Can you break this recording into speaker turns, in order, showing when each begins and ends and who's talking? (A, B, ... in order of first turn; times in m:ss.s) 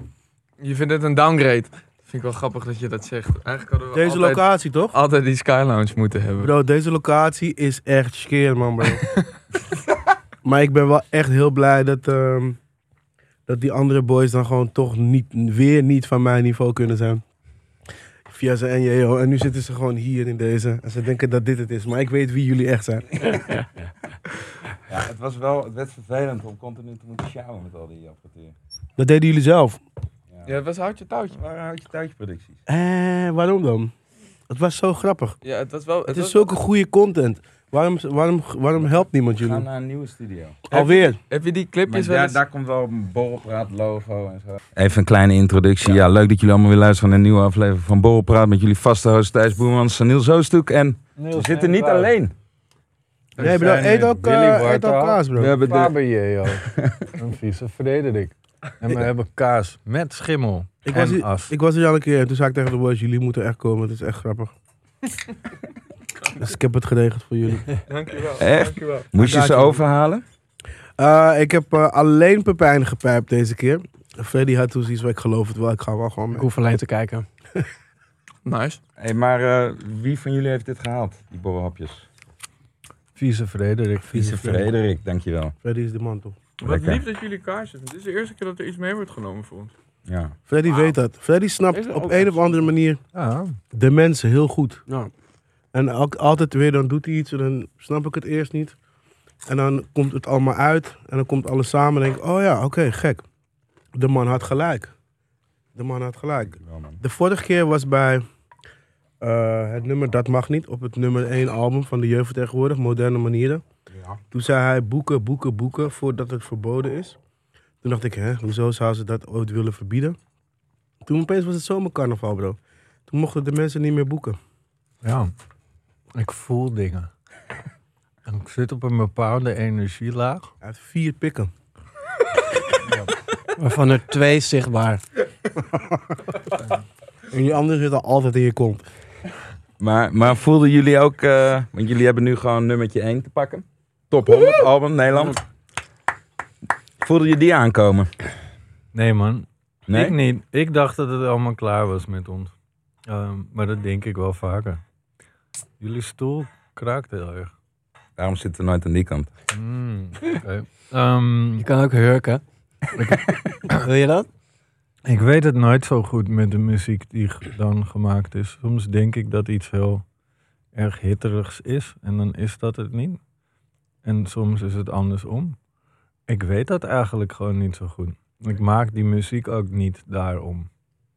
0:00.6-0:06.5 A
0:03.9-0:05.0 B
0:06.4-0:09.0 B
0:10.4-0:12.6 B
0:13.5-0:17.2 B
0:18.3-0:23.2 B
0:23.2-0:23.6 C
0:24.9-0:28.5 C
0:29.0-0:29.8 B
0:30.5-0:31.4 A
0:31.3-0:32.6 C
0:32.7-0:33.9 B
0:34.5-0:35.4 B
0:35.4-0:36.5 A
0:36.1-0:39.6 B
0:38.8-0:40.6 C
0:40.7-0:41.2 B
0:40.7-0:42.4 A
0:41.9-0:52.3 C
0:51.2-0:52.1 D
0:53.4-1:01.5 D
0:53.4-0:55.5 B
0:53.4-0:53.8 A
0:55.4-0:55.9 C
0:56.5-0:57.1 C
1:00.9-1:04.5 B
1:06.4-1:07.7 B
1:07.9-1:09.1 A
1:08.4-1:10.2 C
1:09.2-1:09.8 B
1:11.0-1:16.5 B
1:16.3-1:17.3 E
1:18.4-1:18.8 A
1:19.0-1:22.1 C
1:23.2-1:24.7 D
1:24.2-1:25.6 C
1:25.6-1:26.4 B
1:26.6-1:29.7 A
1:26.6-1:27.0 C
1:30.1-1:30.4 C
1:30.5-1:33.0 B
1:31.7-1:32.7 E
1:33.1-1:33.6 D
1:33.7-1:34.8 B
1:35.7-1:38.8 B
1:39.5-1:43.2 B
1:44.0-1:44.9 B
1:45.8-1:48.2 B
1:46.4-1:47.0 C
1:49.2-1:53.6 B
1:53.9-1:54.2 C
1:54.3-1:57.2 B
1:57.8-2:00.2 B
2:01.1-2:04.4 B
2:05.0-2:05.3 D
2:06.2-2:07.1 D
2:08.3-2:10.5 D
2:10.6-2:11.5 B
2:12.8-2:13.1 D
2:13.6-2:15.0 E
2:17.3-2:18.9 B
2:19.8-2:25.4 C
2:27.0-2:28.1 C
2:28.9-2:32.5 D
2:29.9-2:30.2 C
2:33.1-2:34.8 D
2:35.8-2:37.5 D
2:38.2-2:39.3 C
2:39.5-2:41.7 D
2:41.6-2:42.4 E
2:43.7-2:44.3 E
2:45.0-2:50.0 D
2:50.7-2:53.2 D
2:54.0-2:55.6 D
2:56.3-3:00.7 D